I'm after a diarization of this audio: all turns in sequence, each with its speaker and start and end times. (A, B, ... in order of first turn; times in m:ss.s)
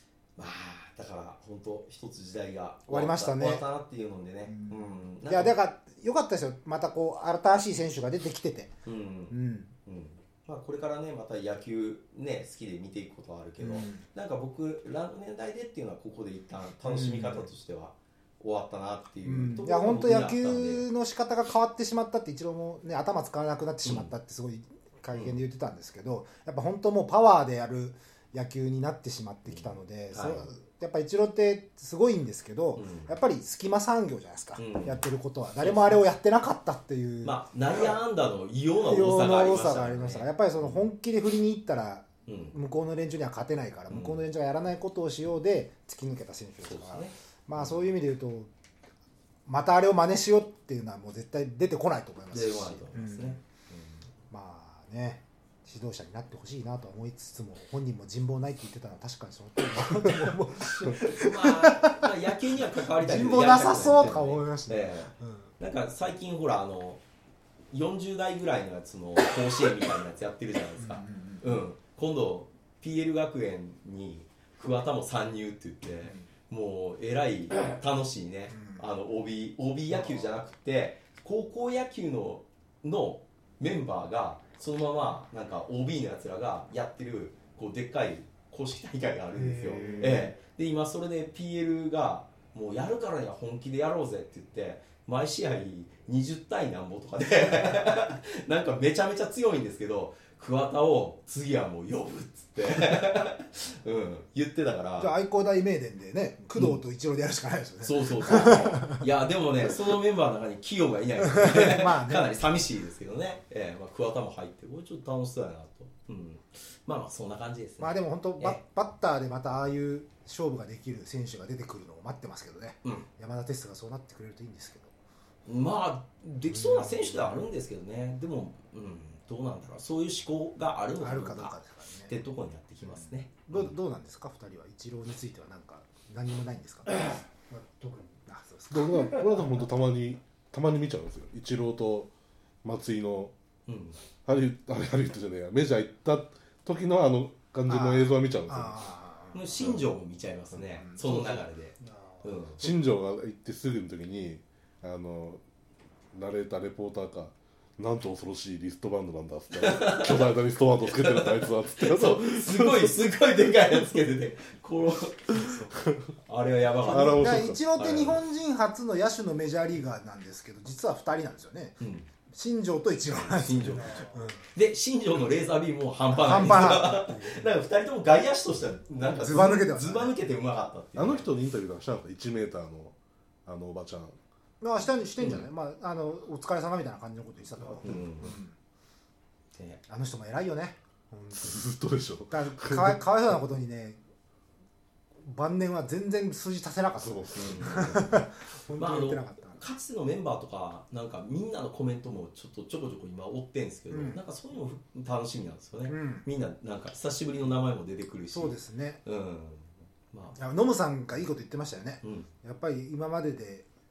0:00.4-0:05.6 A
0:02.9-0:03.7 B
0:04.5-0:08.7 B
0:08.8-0:20.9 A
0:09.3-0:09.7 B
0:13.6-0:14.1 B
0:16.8-0:17.5 B
0:19.2-0:38.0 B
0:23.8-0:24.1 A
0:29.5-0:30.5 A
0:32.8-0:33.2 A
0:34.6-0:36.1 A
0:37.2-0:40.9 A
0:38.8-0:48.5 B
0:42.3-0:42.6 A
0:43.9-0:44.2 A
0:46.6-0:47.9 A
0:49.5-0:53.4 B
0:52.3-0:54.0 A
0:54.3-1:02.0 B
1:00.0-1:07.0 A
1:03.0-1:05.5 B
1:07.7-1:45.1 A
1:10.8-1:11.6 B
1:18.5-1:18.8 B
1:29.3-1:30.4 C
1:29.7-1:30.3 B
1:45.0-1:49.0 B
1:47.8-1:58.6 A
1:51.2-1:52.3 B
1:57.8-2:04.9 B
2:05.5-2:11.6 A
2:06.4-2:07.5 B
2:11.0-2:12.2 B
2:12.1-2:13.7 A
2:12.8-2:17.1 B
2:17.0-2:18.2 C
2:18.3-2:19.0 B
2:18.7-2:22.1 D
2:22.6-2:23.3 D
2:23.7-2:24.0 A
2:24.2-2:28.8 D
2:27.7-2:29.8 B
2:29.3-2:32.6 A
2:30.5-2:31.4 B
2:31.8-2:32.5 C
2:32.6-2:35.4 D
2:36.1-2:43.0 D
2:39.6-2:48.2 A
2:46.8-2:47.7 D
2:46.9-2:51.8 B
2:51.8-2:52.1 A
2:52.3-2:54.4 B
2:53.2-3:01.3 A
2:53.6-2:54.2 C
2:56.1-2:57.3 B
2:59.1-3:00.2 B
3:01.0-3:04.2 D
3:04.6-3:08.6 B
3:05.2-3:05.5 A
3:07.8-3:08.4 A
3:09.6-3:09.8 A
3:09.9-3:11.6 B
3:11.4-3:13.4 D
3:12.3-3:14.0 B
3:15.2-3:19.6 B
3:17.0-3:18.2 D
3:17.3-3:30.4 A
3:23.9-3:24.2 B
3:25.9-3:26.3 B
3:28.3-3:29.0 B
3:30.4-3:33.7 B
3:32.0-3:32.3 A